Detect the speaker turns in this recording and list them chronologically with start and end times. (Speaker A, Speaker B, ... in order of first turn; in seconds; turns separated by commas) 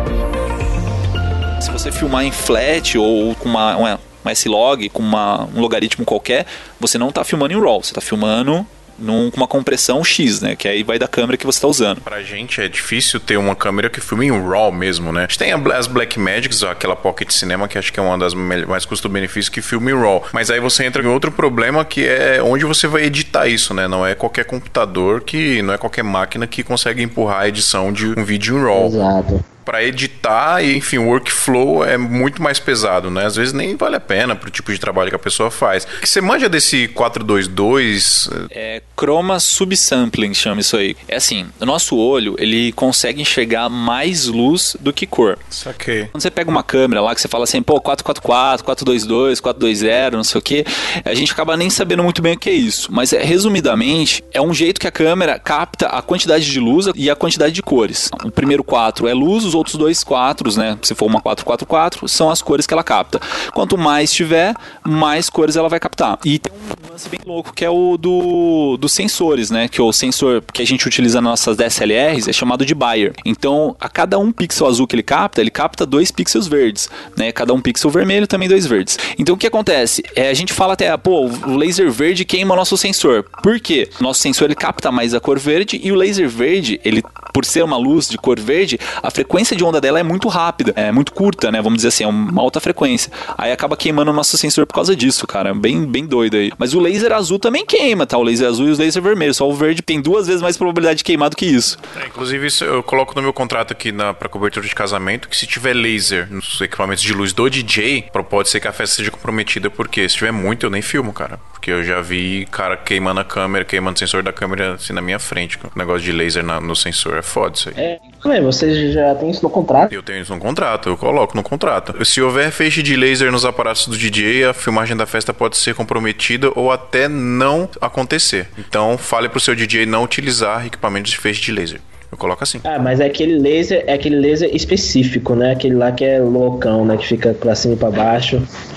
Speaker A: 1.6-12.0, Speaker B: 12.0-29.0, Speaker C: 28.7-29.4, Speaker B: 29.6-38.5, Speaker A: 38.5-45.4, Speaker B: 45.5-46.1, Speaker A: 46.1-101.8, Speaker B: 101.9-117.8, Speaker C: 117.8-119.9, Speaker B: 119.9-132.6, Speaker C: 132.6-138.5